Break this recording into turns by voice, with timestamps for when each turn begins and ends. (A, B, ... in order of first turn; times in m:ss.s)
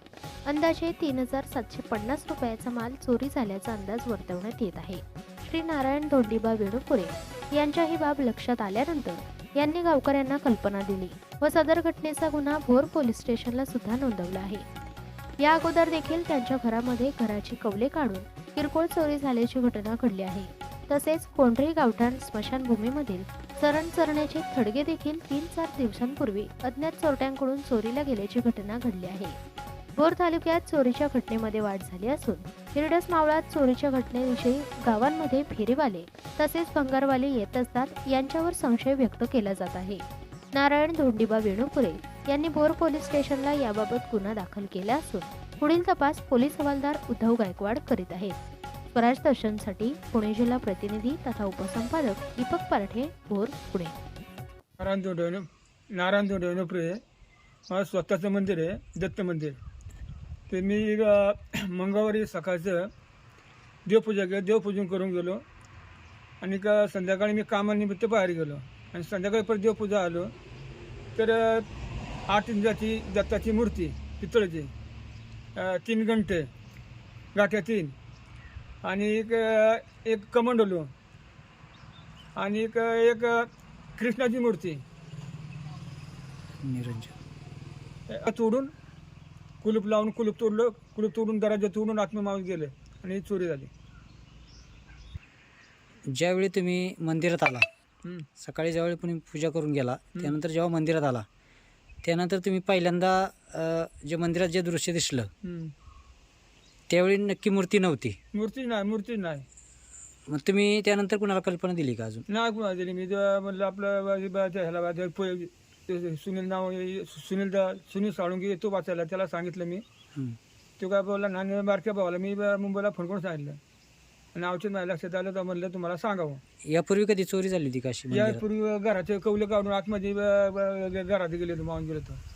0:00.4-0:14.6 A
0:15.4-0:29.4 A
0:30.0-0:48.4 A
0:48.9-0:54.0 A
0:54.8-0:57.0 B
0:57.7-0:59.6 B
1:00.5-1:02.9 B
1:03.8-1:05.4 B
1:06.4-1:10.3 B
1:11.1-1:11.6 B
1:12.3-1:14.7 B
1:15.6-1:16.5 B
1:17.4-1:17.9 B
1:18.8-1:20.9 B
1:22.4-1:23.4 B
1:24.0-1:24.8 B
1:26.6-1:27.1 C
1:28.1-1:28.7 B
1:29.6-1:33.7 B
1:36.1-1:37.6 C
1:38.4-1:41.2 C
1:42.0-1:45.3 C
1:45.4-1:45.7 B
1:46.9-1:48.2 C
1:48.3-1:49.4 B
1:50.3-1:52.2 C
1:52.3-1:59.8 B
2:00.8-2:03.6 B
2:04.3-2:06.4 B
2:06.6-2:08.4 C
2:08.1-2:12.2 B